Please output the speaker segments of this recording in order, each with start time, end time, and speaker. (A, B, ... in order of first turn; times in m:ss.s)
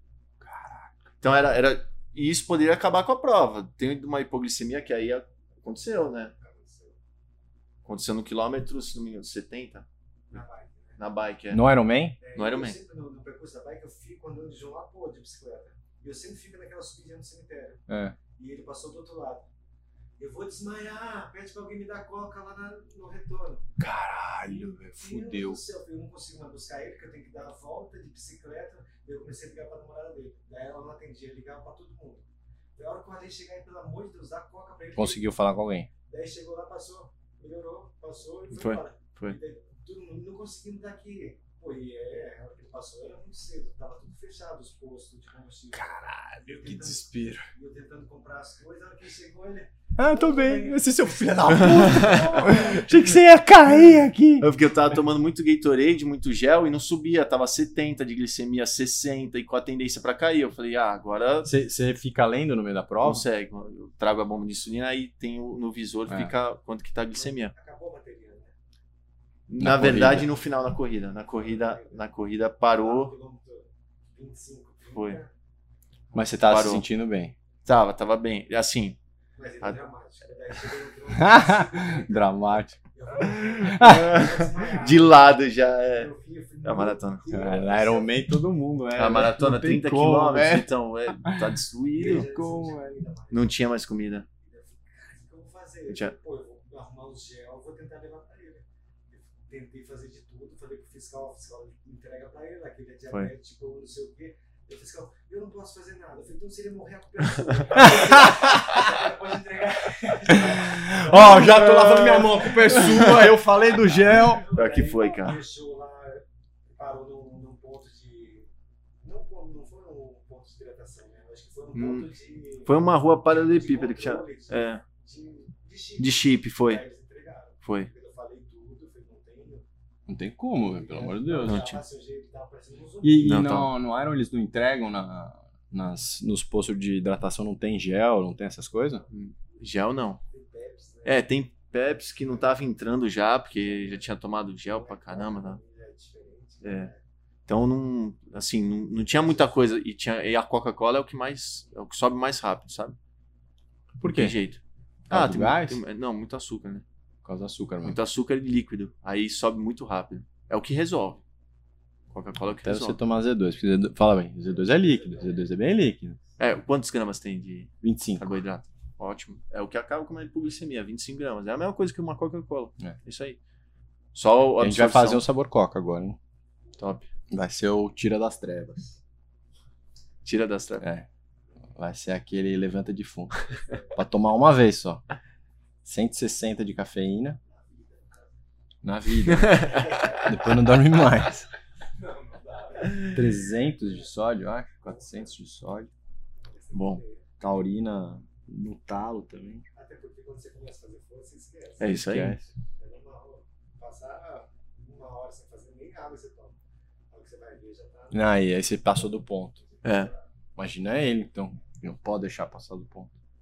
0:00.4-0:00.9 A
0:01.2-0:06.3 B
0:06.3-0:06.9 C
0:07.8-0:09.8 B
0:10.3-0:11.0 C
0:11.0-0:11.6 B
0:11.5-0:12.2 A
0:12.2-0:17.8 C
0:12.4-0:12.8 B
0:17.9-0:18.2 A
0:18.4-0:19.5 C
0:20.2-0:23.7 C
0:23.8-0:25.6 A
0:24.5-0:32.2 C
0:32.8-0:35.3 C
0:35.0-0:35.9 A
0:36.1-0:52.9 C
0:38.5-0:39.4 B
0:45.7-0:47.5 A
0:50.0-0:54.5 A
0:51.5-0:52.7 B
0:54.4-1:01.5 B
1:01.4-1:03.2 A
1:03.0-1:07.5 B
1:06.1-1:06.3 A
1:07.2-1:08.5 C
1:09.5-1:13.1 B
1:09.6-1:10.3 A
1:11.3-1:12.1 C
1:12.7-1:15.3 C
1:14.9-1:15.2 B
1:16.1-1:17.3 A
1:16.3-1:16.8 B
1:17.6-1:19.0 B
1:19.4-1:22.4 C
1:21.2-1:22.8 A
1:22.9-1:28.1 C
1:23.3-1:26.1 B
1:23.6-1:24.1 A
1:26.6-1:27.2 B
1:27.3-1:30.7 A
1:29.0-1:32.3 B
1:32.0-1:33.5 C
1:32.0-1:33.0 A
1:33.3-1:34.3 B
1:34.4-1:51.6 C
1:35.9-1:36.1 B
1:47.4-1:47.9 B
1:48.0-1:48.6 A
1:50.5-1:54.4 A
1:51.3-1:53.3 B
1:53.8-1:58.5 C
1:54.4-1:55.4 B
1:59.0-2:09.6 C
2:01.7-2:02.1 B
2:02.6-2:04.8 B
2:06.0-2:06.8 B
2:07.6-2:07.9 B
2:10.1-2:11.7 A
2:10.7-2:13.4 C
2:11.5-2:11.8 B
2:13.0-2:19.0 A
2:13.2-2:13.7 B
2:19.1-2:20.2 B
2:20.3-2:21.3 C
2:21.0-2:25.6 B
2:23.6-2:27.0 C
2:26.6-2:26.9 B
2:27.5-2:33.0 B
2:34.0-2:34.4 A
2:34.0-2:36.8 B
2:35.1-2:35.8 A
2:37.2-2:38.0 A
2:37.8-2:41.2 B
2:42.1-2:43.0 B
2:42.6-2:46.2 A
2:44.5-2:45.5 C
2:46.4-2:53.4 B
2:47.8-2:48.3 A
2:54.1-2:55.2 B
2:54.6-2:56.2 A
2:56.8-2:57.1 B
2:57.3-2:59.0 A
3:00.2-3:00.8 B
3:00.8-3:01.1 A
3:01.8-3:03.4 A
3:03.9-3:05.0 A
3:05.8-3:07.4 A
3:07.5-3:08.3 C
3:08.8-3:11.5 A
3:09.3-3:09.9 B
3:09.7-3:10.3 C
3:12.0-3:13.2 C
3:13.1-3:15.9 A
3:13.8-3:14.1 C
3:14.9-3:15.3 C
3:16.5-3:17.2 C
3:16.7-3:17.0 B
3:17.4-3:19.6 A
3:19.8-3:22.0 C
3:21.8-3:22.4 B
3:21.8-3:22.5 A
3:22.8-3:26.6 C
3:27.1-3:28.4 C
3:28.1-3:29.6 A
3:29.6-3:30.2 C
3:29.8-3:30.1 B
3:30.6-3:33.1 A